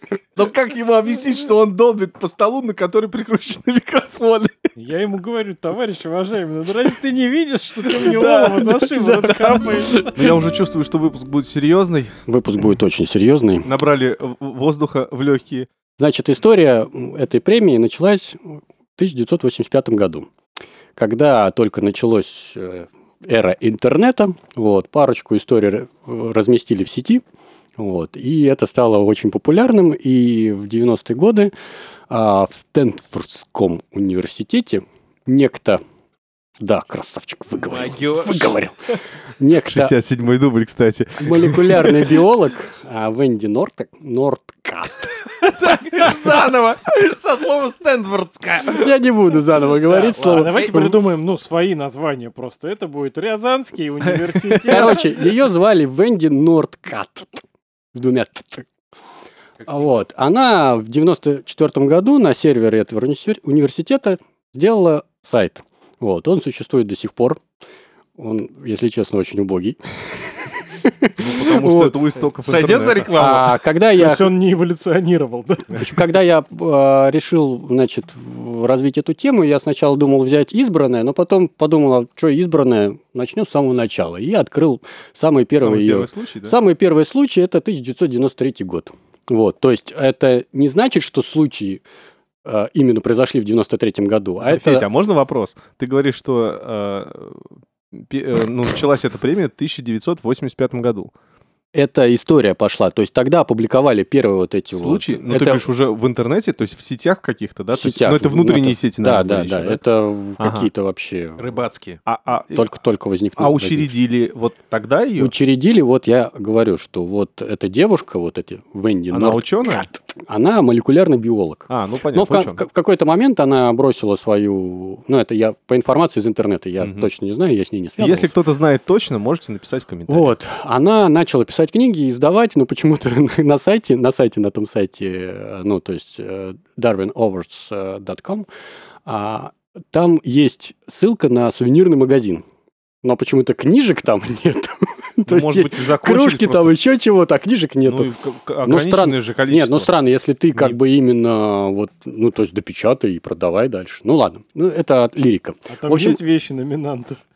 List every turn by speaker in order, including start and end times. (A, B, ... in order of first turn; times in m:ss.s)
0:00.4-0:04.7 A
0:04.8-0:10.1 B
0:07.8-0:12.2 A
0:09.8-0:10.3 C
0:12.3-0:13.7 C
0:13.6-0:15.7 A
0:16.0-0:20.3 C
0:21.0-0:27.2 C
0:27.8-0:31.5 C
0:32.1-0:35.8 C
0:36.6-0:38.8 C
0:37.6-0:38.6 D
0:39.4-0:39.9 C
0:39.7-0:42.2 A
0:41.2-0:45.2 C
0:45.4-0:48.9 D
0:48.7-0:51.0 C
0:49.9-0:55.0 B
0:50.2-0:50.9 D
0:54.6-0:54.8 A
0:54.7-0:57.4 C
0:57.9-0:58.7 C
0:59.7-1:07.4 C
1:08.2-1:09.8 C
1:10.9-1:12.0 C
1:11.2-1:13.2 A
1:12.4-1:13.6 D
1:13.1-1:14.3 C
1:14.0-1:15.8 B
1:15.8-1:31.8 C
1:25.6-1:26.6 A
1:32.4-1:34.9 C
1:34.4-1:41.1 A
1:41.7-1:45.6 C
1:44.7-1:49.8 A
1:47.7-1:51.5 C
1:50.4-1:50.7 A
1:51.4-1:52.0 D
1:52.1-1:52.7 A
1:52.5-1:53.9 C
1:53.4-1:55.3 A
1:55.2-2:08.3 C
1:59.1-1:59.9 A
2:01.7-2:02.6 A
2:06.8-2:07.1 A
2:08.0-2:10.3 A
2:10.1-2:18.5 C
2:19.1-2:22.4 C
2:23.0-2:28.1 C
2:25.3-2:26.8 A
2:27.9-2:29.9 A
2:28.6-2:36.2 C
2:35.7-2:37.2 B